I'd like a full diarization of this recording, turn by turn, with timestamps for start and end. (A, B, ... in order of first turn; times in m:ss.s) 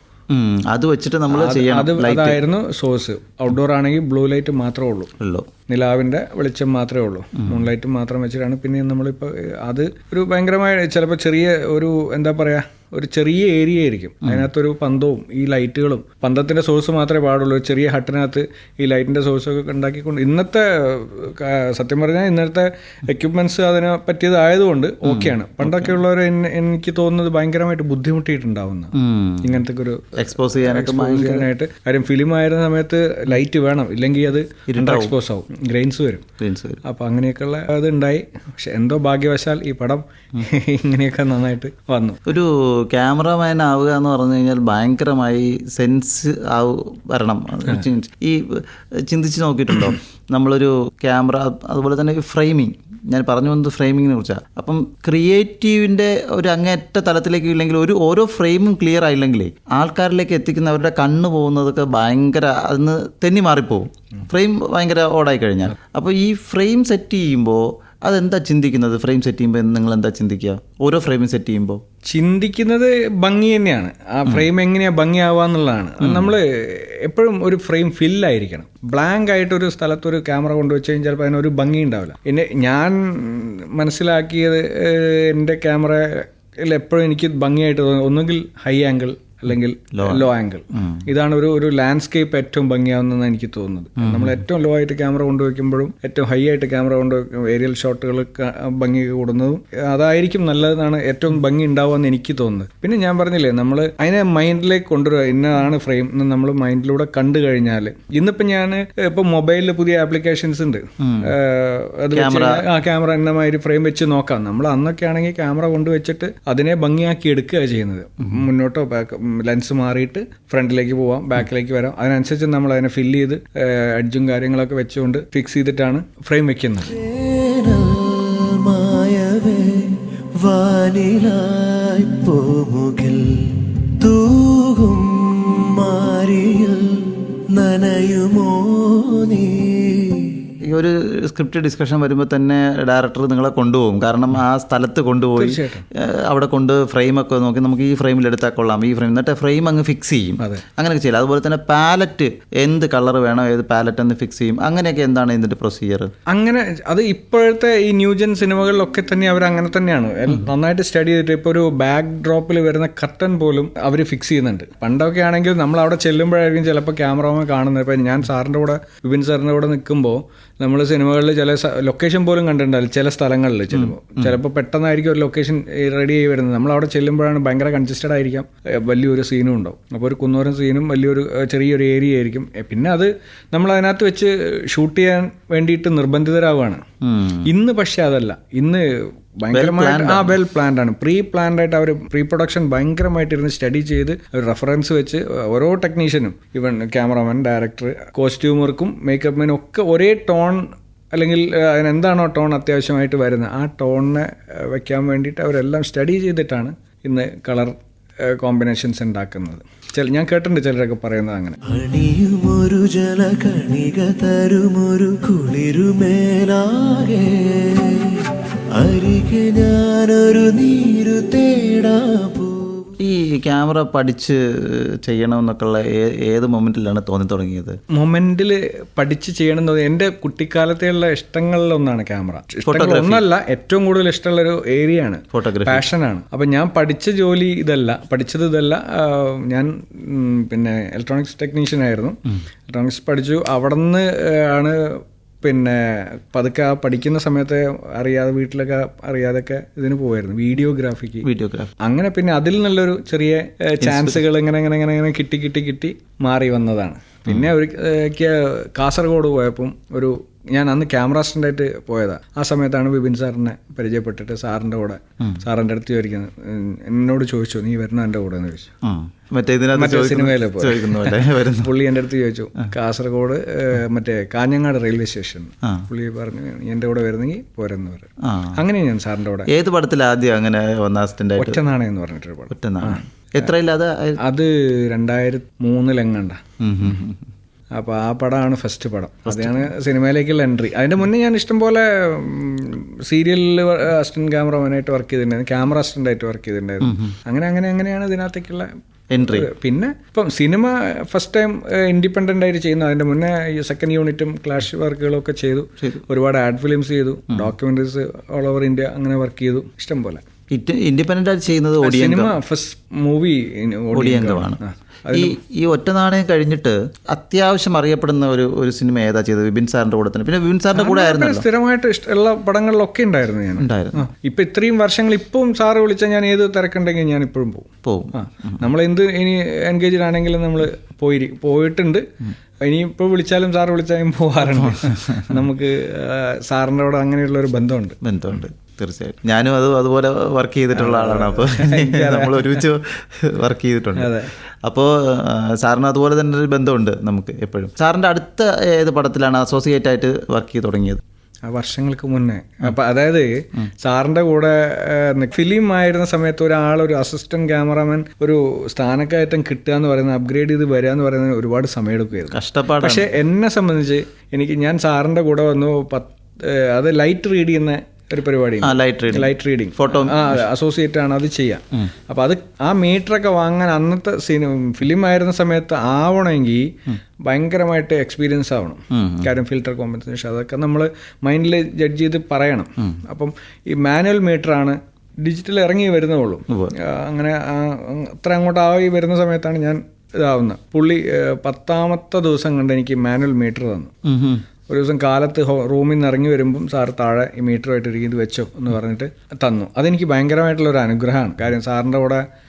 0:00.3-0:02.4 A
0:01.3-0:05.1 B
0:05.2-0:05.5 A
0:05.7-0:36.3 B
0:25.0-0:26.0 A
0:29.0-0:29.6 A
0:30.2-0:31.5 A
0:34.7-0:35.1 A
0:36.4-0:36.8 A
0:36.8-0:42.2 B
0:42.3-1:11.8 A
1:12.1-2:07.0 B
1:16.0-1:16.4 A
1:29.9-1:31.0 A
1:34.0-1:34.4 A
1:51.0-1:51.3 A
1:52.1-1:52.7 A
2:07.0-2:20.6 C
2:20.7-2:36.1 A
2:25.4-2:25.9 B
2:36.3-3:06.8 B
3:07.0-3:07.5 A
3:07.5-3:31.6 B
3:09.5-3:10.4 A
3:31.7-3:42.9 C
3:43.0-3:47.8 A
3:47.9-4:02.2 B
3:52.6-3:53.2 A
3:55.3-3:55.9 A
4:02.7-4:11.3 B
4:11.2-4:11.7 A
4:11.8-4:28.7 B
4:13.8-4:14.2 A
4:28.8-4:31.7 A
4:29.7-4:39.5 B
4:38.2-4:38.6 A
4:39.5-4:41.6 A
4:41.4-4:43.0 B
4:42.5-4:44.2 A
4:44.2-4:46.4 B
4:46.6-4:47.2 A
4:47.8-5:10.2 B
4:49.3-4:49.7 A
4:56.8-4:57.1 A
4:59.1-4:59.5 A
5:10.5-5:12.4 A
5:11.8-5:15.4 B
5:13.9-5:14.6 A
5:15.1-5:21.5 A
5:20.7-5:32.0 B
5:23.6-5:24.1 A
5:27.8-5:28.3 A
5:32.6-5:38.0 B
5:34.6-5:35.4 A
5:38.0-5:51.0 A
5:40.8-5:42.6 B
5:44.0-5:44.3 B
5:51.5-6:16.7 B
6:02.3-6:03.1 A
6:08.6-6:10.4 A
6:17.2-6:33.9 B
6:18.9-6:19.3 A
6:34.0-6:34.4 A
6:34.7-6:42.2 B